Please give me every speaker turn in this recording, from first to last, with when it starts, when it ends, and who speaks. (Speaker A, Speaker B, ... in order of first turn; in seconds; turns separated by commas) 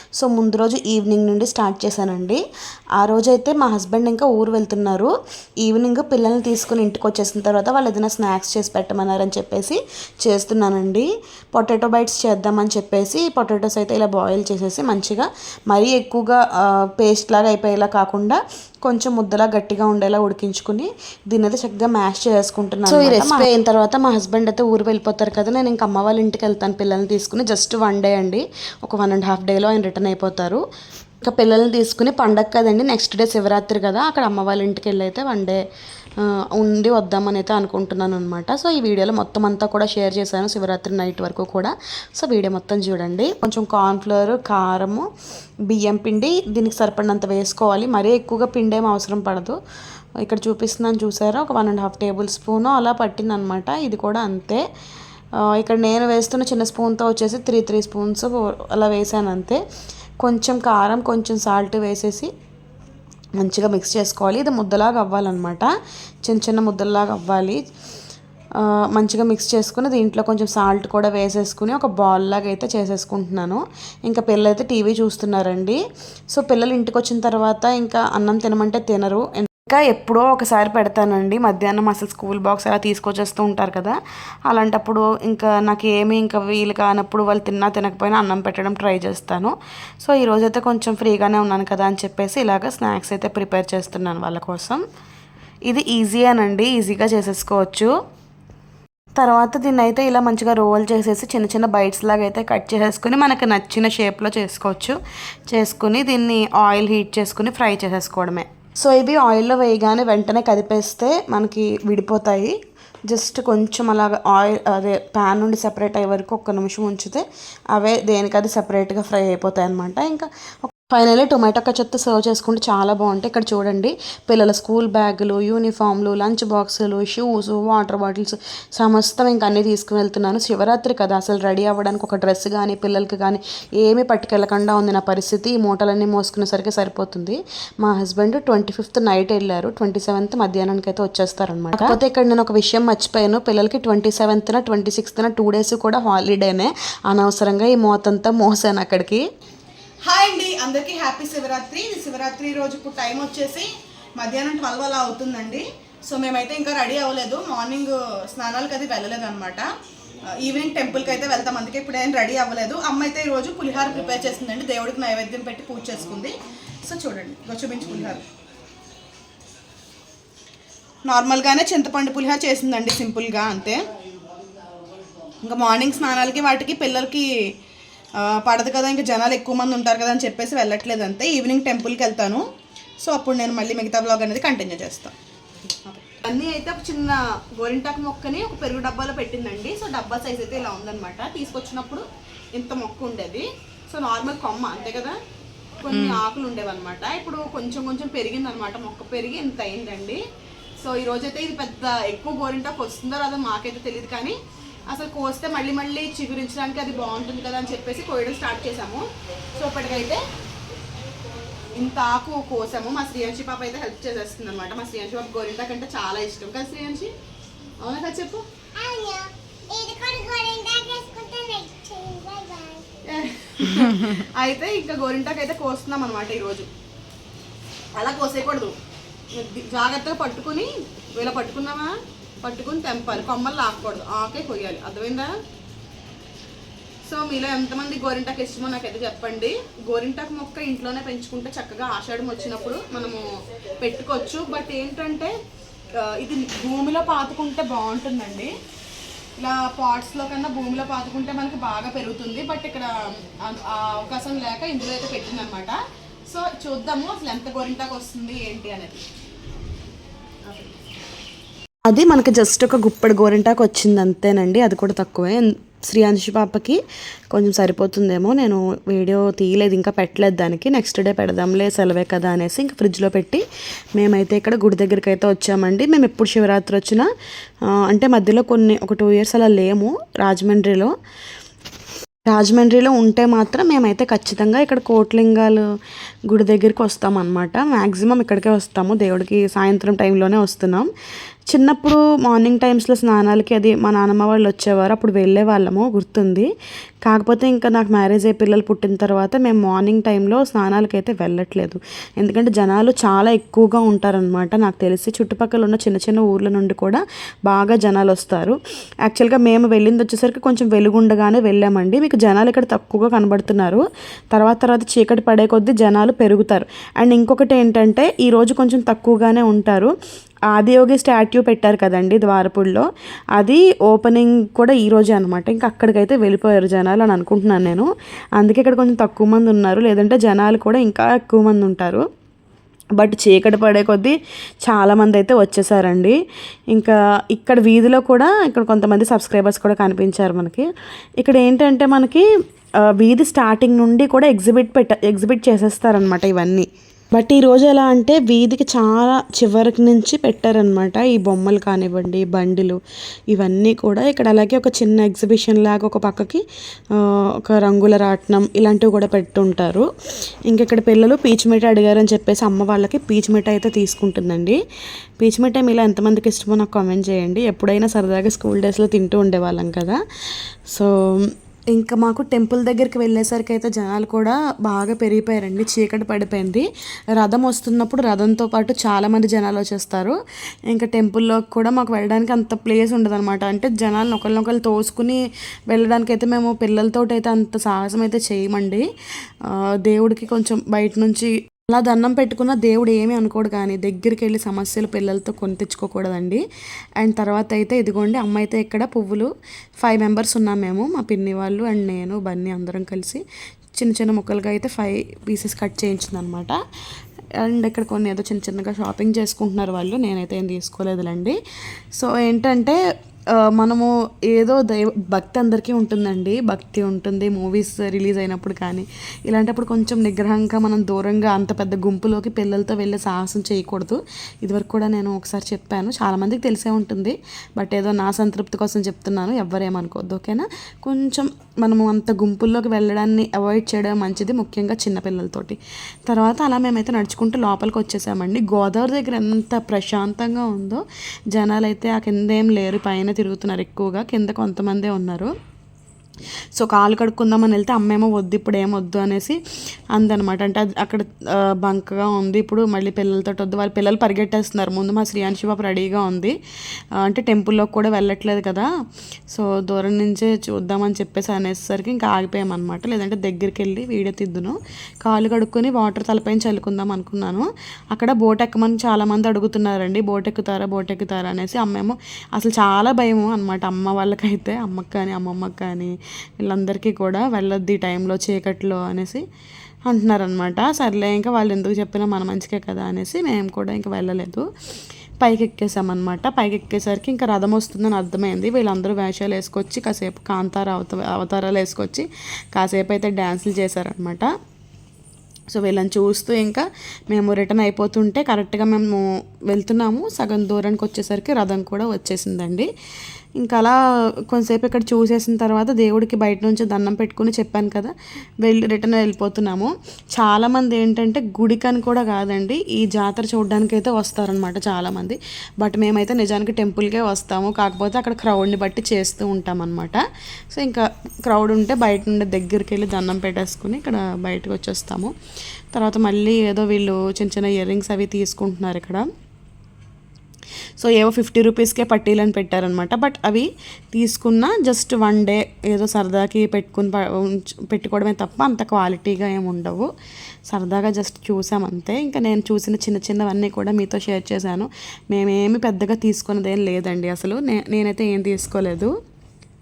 Speaker A: 0.2-2.4, Speaker A: 3.0-30.6, Speaker B: 23.1-23.4, Speaker A: 31.2-35.6, Speaker A: 36.2-45.1, Speaker A: 45.7-49.6, Speaker A: 50.2-54.6, Speaker A: 55.4-59.6, Speaker A: 60.2-62.3, Speaker A: 63.4-65.7, Speaker A: 66.2-67.6, Speaker A: 68.6-94.8, Speaker A: 95.7-97.9, Speaker A: 99.2-112.6, Speaker A: 113.1-149.2, Speaker B: 150.1-159.7, Speaker B: 160.4-166.3, Speaker B: 166.8-168.2, Speaker B: 171.1-173.8, Speaker B: 175.4-177.3, Speaker B: 178.2-182.5, Speaker B: 183.0-185.1, Speaker A: 185.9-188.6, Speaker B: 187.1-192.0, Speaker B: 192.6-193.4, Speaker A: 193.9-194.7, Speaker B: 194.1-195.2, Speaker A: 195.8-199.4, Speaker B: 195.9-196.5, Speaker B: 197.0-197.6, Speaker B: 199.5-200.2, Speaker B: 200.8-204.3, Speaker A: 201.2-203.9, Speaker B: 204.9-209.0, Speaker A: 205.8-206.6, Speaker B: 209.6-210.2, Speaker B: 211.8-217.1, Speaker A: 212.3-213.6, Speaker A: 214.9-215.3, Speaker B: 217.8-218.4, Speaker C: 218.8-222.9, Speaker B: 223.1-226.7, Speaker B: 228.0-228.8, Speaker A: 228.0-228.4, Speaker B: 229.4-230.7, Speaker A: 229.8-230.3, Speaker B: 231.2-231.9, Speaker B: 232.5-235.3, Speaker B: 237.1-243.2, Speaker A: 238.1-238.6, Speaker A: 240.1-240.7, Speaker A: 241.5-241.8, Speaker B: 243.8-245.3, Speaker B: 246.0-248.5, Speaker A: 247.2-247.7, Speaker B: 249.4-255.7, Speaker A: 249.9-251.5, Speaker A: 254.2-255.8, Speaker B: 256.3-257.5, Speaker A: 257.2-258.7, Speaker B: 258.4-259.0, Speaker A: 261.9-266.8, Speaker A: 267.3-273.4, Speaker A: 274.0-277.1, Speaker A: 277.7-280.9, Speaker A: 282.2-285.6, Speaker A: 286.3-290.9, Speaker A: 291.5-296.5, Speaker A: 297.1-319.9, Speaker A: 320.5-332.1, Speaker A: 333.0-336.2, Speaker A: 336.7-342.2, Speaker A: 342.9-352.8, Speaker A: 353.3-356.4, Speaker A: 356.9-359.9, Speaker A: 360.5-364.6, Speaker A: 365.2-380.2, Speaker A: 380.7-396.4, Speaker A: 397.0-403.2, Speaker A: 403.8-406.6, Speaker A: 407.4-411.4, Speaker A: 411.9-412.8, Speaker A: 413.4-445.3, Speaker A: 446.6-449.4, Speaker A: 449.9-456.4, Speaker A: 456.9-458.7, Speaker A: 459.3-479.2, Speaker A: 479.9-484.5, Speaker A: 485.2-494.3, Speaker A: 495.5-502.7, Speaker A: 503.4-503.8, Speaker A: 504.3-525.1, Speaker A: 525.7-529.1, Speaker A: 530.8-539.9, Speaker A: 540.5-548.9